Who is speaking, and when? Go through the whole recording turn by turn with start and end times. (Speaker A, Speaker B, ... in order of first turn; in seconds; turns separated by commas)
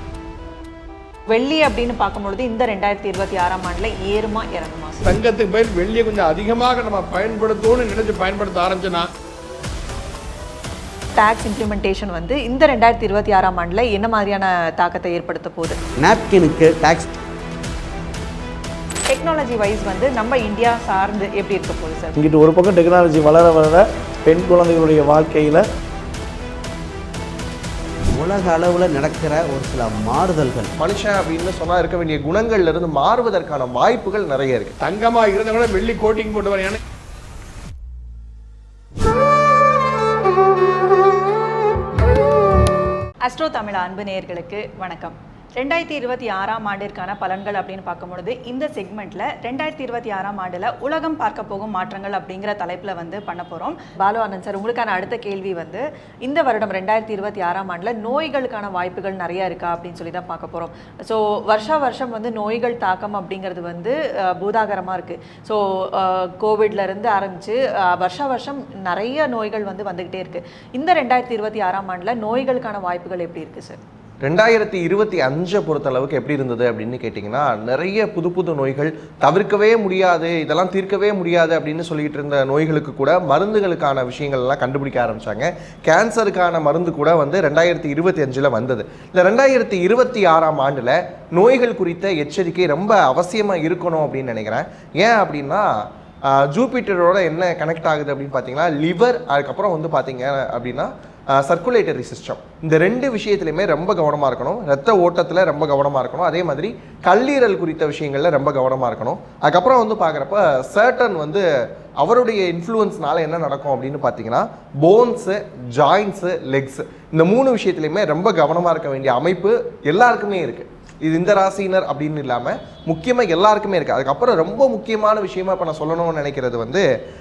Speaker A: 1.3-5.1, Speaker B: 5.0-9.1, Speaker A: 11.2-15.8, Speaker C: 16.0-17.1, Speaker A: 19.1-22.2, Speaker D: 22.2-25.6, Speaker C: 28.1-30.7, Speaker E: 30.8-34.7, Speaker B: 34.8-36.8, Speaker A: 43.2-73.8, Speaker E: 74.2-95.7, Speaker E: 96.3-111.4, Speaker E: 112.0-126.8